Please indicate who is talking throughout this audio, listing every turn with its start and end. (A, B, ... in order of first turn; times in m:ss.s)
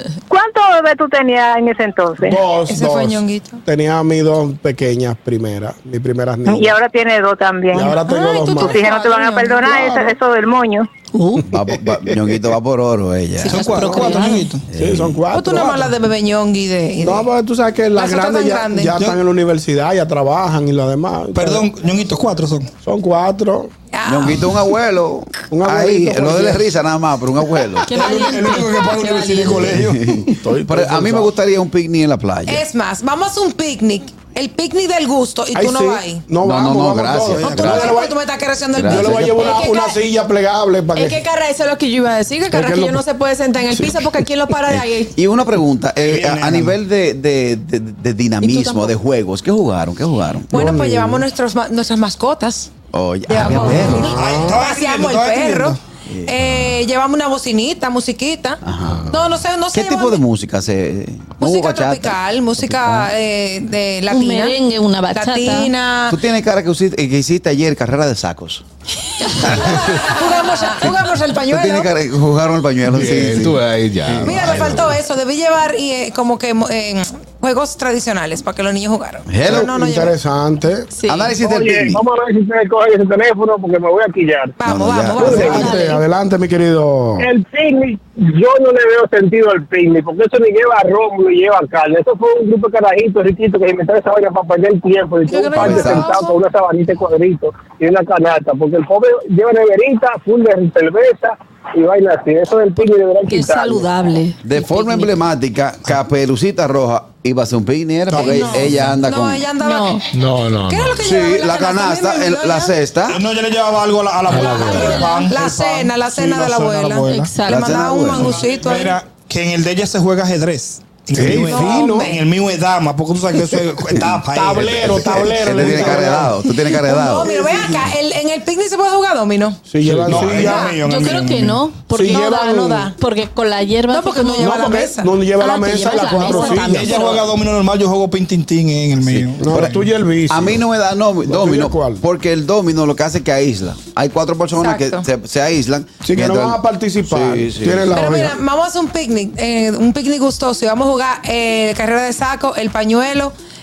0:00.3-0:02.4 A
0:02.2-0:06.7 B
0:02.6-0:03.6 C
0:06.4-0:10.9 A
0:07.7-0:08.8 B
0:08.1-0:09.7 C
0:09.6-0:10.1 B
0:11.1-0:11.4 D
0:11.5-0:13.7 E
0:13.4-0:14.7 F
0:13.6-0:14.4 D
0:13.7-0:15.9 B
0:14.7-0:15.2 E
0:15.3-0:17.3 C
0:17.0-0:21.6 B
0:17.9-0:18.9 C
0:18.9-0:19.2 F
0:21.3-0:22.7 F
0:22.8-0:23.7 B
0:23.9-0:24.5 C
0:24.0-0:27.8 E
0:25.5-0:26.6 B
0:27.9-0:29.5 D
0:27.9-0:30.3 F
0:29.4-0:32.6 E
0:30.4-0:31.3 B
0:32.5-0:36.3 C
0:35.5-0:38.1 B
0:36.4-0:38.0 E
0:37.3-0:38.0 F
0:37.6-0:39.7 C
0:38.7-0:39.6 E
0:38.9-0:41.2 B
0:39.2-0:40.0 G
0:40.9-0:45.1 G
0:42.5-0:43.0 B
0:43.7-0:44.1 B
0:44.7-0:50.6 E
0:46.0-0:46.7 F
0:48.4-0:48.9 G
0:50.5-0:52.7 C
0:50.5-0:51.2 B
0:52.9-0:54.2 E
0:53.3-1:00.2 C
0:53.7-0:54.6 B
0:54.0-0:55.8 F
0:56.1-0:56.7 E
0:58.6-0:59.1 E
0:59.7-1:03.1 E
1:01.4-1:06.2 C
1:04.1-1:05.7 D
1:06.1-1:08.6 E
1:09.2-1:11.9 C
1:11.5-1:14.8 E
1:12.8-1:14.9 H
1:14.3-1:20.2 C
1:19.3-1:19.7 E
1:19.4-1:20.9 B
1:20.9-1:21.3 G
1:21.0-1:22.0 E
1:21.4-1:24.5 I
1:24.6-1:26.0 C
1:24.6-1:25.7 E
1:25.2-1:25.5 I
1:25.3-1:27.3 B
1:27.2-1:43.9 I
1:35.3-1:36.4 C
1:35.6-1:36.1 E
1:35.6-1:35.9 B
1:43.3-1:45.1 D
1:44.4-1:49.5 E
1:48.1-1:48.9 F
1:48.1-1:50.1 C
1:48.7-1:48.9 H
1:49.6-1:50.0 D
1:50.1-1:51.0 H
1:50.7-1:52.7 C
1:51.0-1:53.2 E
1:53.1-1:57.5 F
1:54.3-1:54.7 B
1:54.4-1:59.0 C
1:57.1-1:57.6 D
1:57.4-1:58.4 E
1:58.2-2:06.3 F
2:01.1-2:02.0 B
2:01.3-2:02.2 C
2:04.3-2:06.3 B
2:05.4-2:07.3 E
2:06.7-2:09.7 C
2:07.2-2:07.8 B
2:09.7-2:10.6 B
2:09.8-2:11.6 F
2:10.1-2:10.4 E
2:10.4-2:11.2 C
2:10.8-2:12.4 D
2:11.9-2:12.9 B
2:12.2-2:13.0 C
2:13.0-2:14.6 D
2:13.9-2:17.2 C
2:14.4-2:17.0 B
2:15.6-2:16.8 D
2:16.7-2:19.9 F
2:19.0-2:19.8 E
2:19.4-2:20.6 B
2:20.3-2:28.0 E
2:21.3-2:22.0 B
2:24.6-2:25.0 C
2:26.0-2:28.4 B
2:27.9-2:33.3 C